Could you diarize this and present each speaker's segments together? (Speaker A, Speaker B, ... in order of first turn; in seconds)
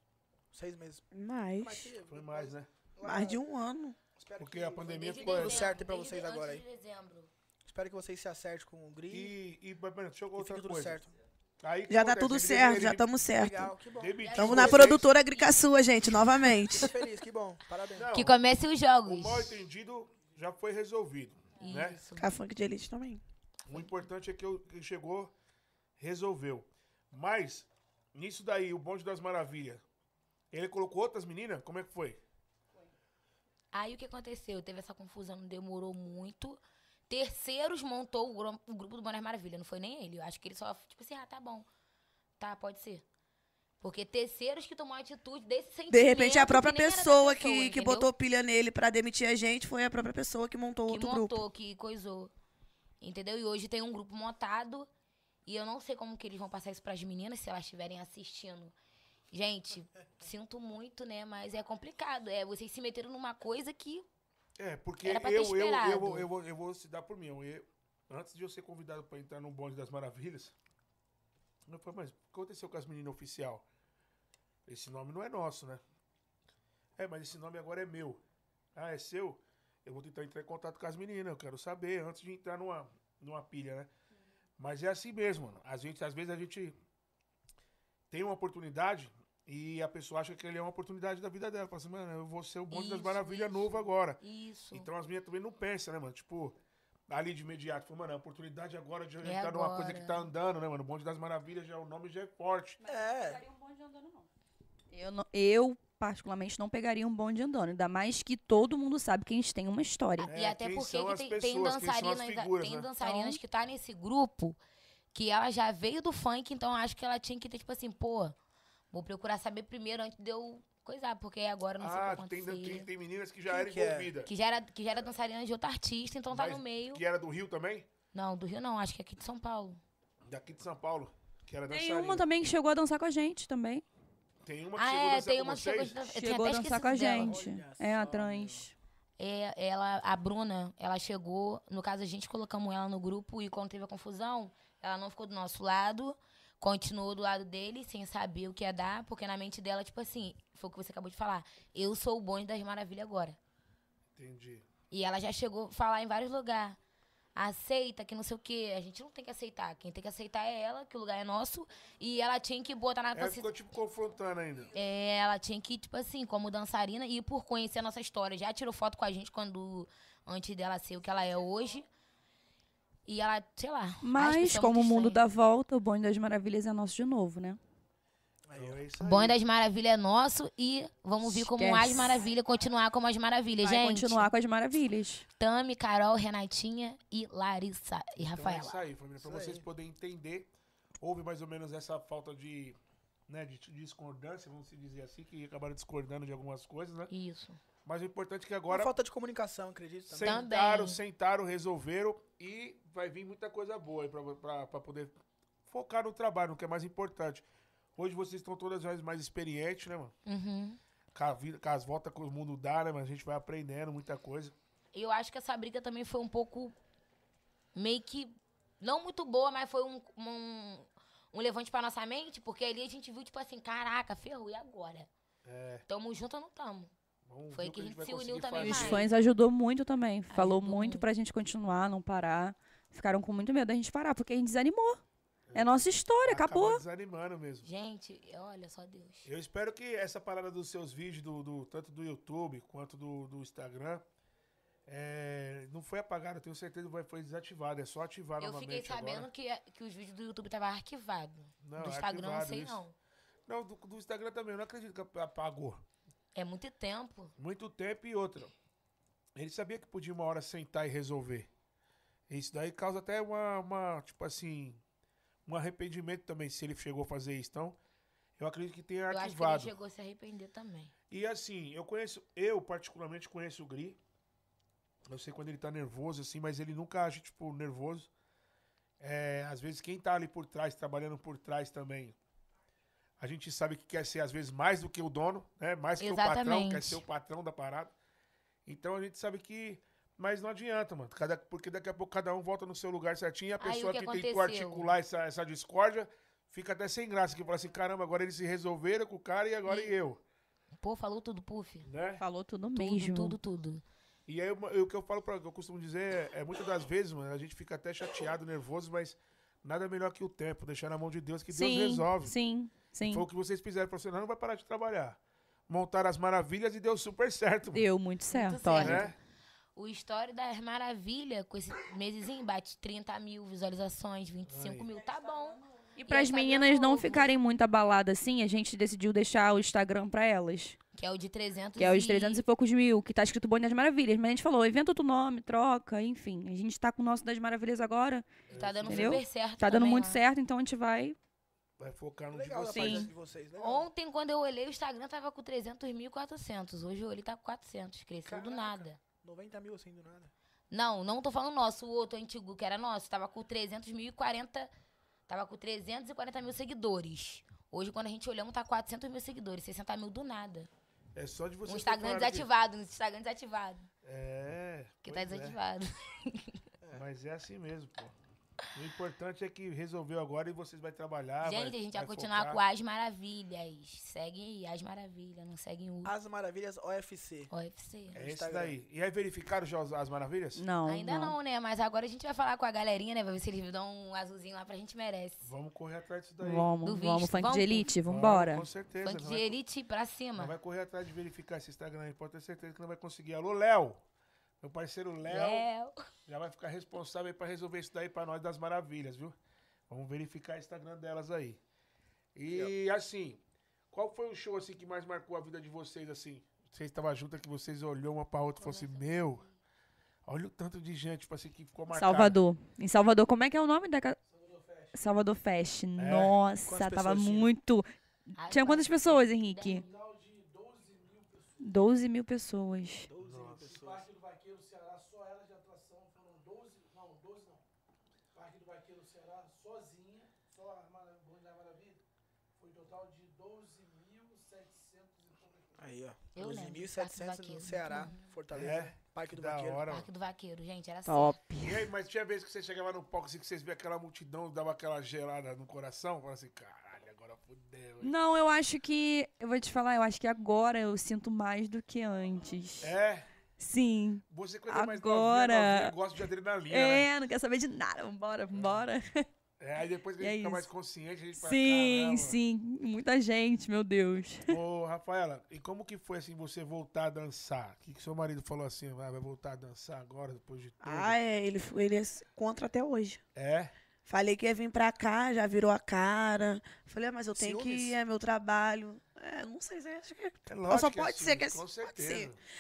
Speaker A: 0.5-1.0, 1.6-3.4, 4.2-6.6, 7.7-9.3, 10.4-11.1, 13.3-14.6, 16.7-18.1, 102.8-103.4, 123.5-124.1, 137.1-138.7, 178.5-178.8, 189.2-189.6, 198.7-200.4, 342.3-343.9, 348.3-350.3, 376.1-377.5, 378.1-378.8, 416.7-417.5, 423.0-424.0, 435.8-439.9, 477.4-478.0
Speaker B: 1.1-1.9, 3.0-4.0, 11.9-13.8, 14.3-16.9, 22.2-23.2, 45.9-51.4, 470.8-473.2, 474.1-482.3
Speaker C: 2.1-2.7, 4.4-5.7, 9.1-11.0, 11.6-13.1, 14.0-15.1, 18.0-18.4, 19.1-22.0, 23.7-25.3, 26.0-29.8, 30.5-32.2, 64.6-70.5, 71.7-73.7, 74.7-75.8, 77.0-78.2, 78.8-83.9, 84.6-86.8, 88.1-94.2, 94.7-96.6, 97.1-102.8, 110.3-112.9, 121.8-124.3, 126.3-127.9, 130.3-132.3, 134.4-136.0, 154.2-154.7, 163.1-164.7, 178.6-179.4, 188.2-192.8, 193.3-197.1, 197.8-198.9, 200.1-205.2, 205.7-207.4, 208.0-210.1, 211.1-214.5, 225.4-225.8, 227.3-229.1, 235.5-237.7, 239.2-244.0, 244.9-249.3, 251.6-252.8, 253.5-255.8, 257.4-258.5, 259.4-261.5, 262.3-264.8, 265.5-267.8, 268.4-269.7, 271.1-274.0, 275.1-278.1, 279.0-282.2, 283.2-287.9, 288.7-300.2, 301.8-302.2, 304.3-312.4, 313.1-315.2, 315.7-317.9, 318.7-319.1, 324.5-324.9, 338.5-339.2, 341.8-343.1, 361.1-362.5, 364.0-365.6, 366.9-368.1, 368.7-372.6, 378.1-380.6, 385.4-386.7, 388.1-389.6, 390.4-394.0, 394.6-395.7, 396.3-399.4, 399.9-401.6, 402.4-403.4, 403.9-409.4, 410.3-412.4, 416.0-416.4, 423.2-423.7, 438.5-440.1, 441.6-448.1, 452.8-453.3, 454.3-457.1, 458.5-458.9, 459.6-462.4, 464.5-471.2, 473.4-473.7, 480.5-482.4
Speaker D: 5.0-7.3, 14.2-15.6, 18.1-19.6, 21.6-22.3, 33.7-41.7, 42.4-43.0, 43.8-48.1, 50.9-52.3, 53.0-54.9, 55.5-58.7, 59.3-64.1, 65.0-66.3, 92.7-94.9, 99.2-100.3, 110.2-114.6, 115.1-118.4, 118.9-122.9, 124.2-127.0, 128.1-129.8, 134.8-137.4, 139.2-153.4, 154.9-156.8, 157.4-163.6, 164.7-171.9, 173.1-175.2, 179.0-184.3, 185.4-188.8, 197.1-197.6, 200.2-201.0, 210.3-210.8, 214.9-216.8, 217.8-225.1, 225.9-226.9, 227.5-229.1, 230.3-231.1, 237.6-239.3, 248.4-252.9, 256.4-257.3, 269.1-270.9, 286.0-287.0, 293.6-294.9, 299.7-299.9, 300.8-301.9, 302.8-303.8, 318.3-319.2, 319.8-327.3, 330.9-332.4, 338.5-340.2, 343.6-349.0, 350.7-354.7, 355.3-360.7, 361.7-363.9, 365.1-366.6, 371.4-376.1, 377.5-378.2, 380.9-385.5, 386.8-387.9, 389.0-390.6, 395.3-396.1, 408.6-409.6, 418.4-419.9, 436.3-438.3, 439.9-441.4
Speaker E: 103.0-104.3, 104.9-110.3, 113.0-113.4, 131.7-133.8, 136.1-138.7, 174.0-177.6, 181.2-182.2, 183.6-185.3, 228.6-235.0, 235.5-236.8, 302.2-303.4, 311.5-313.3, 317.7-319.1, 326.0-330.8, 331.8-338.3, 338.9-341.2, 342.7-343.1, 380.6-381.4, 386.4-388.7, 411.9-414.2, 414.9-419.8, 421.6-423.1, 441.1-441.8, 448.0-452.9, 453.6-456.0, 456.7-459.3, 460.2-460.7, 461.4-464.6
Speaker F: 414.2-415.2, 419.7-421.9, 423.6-427.6, 428.3-432.0, 432.6-435.9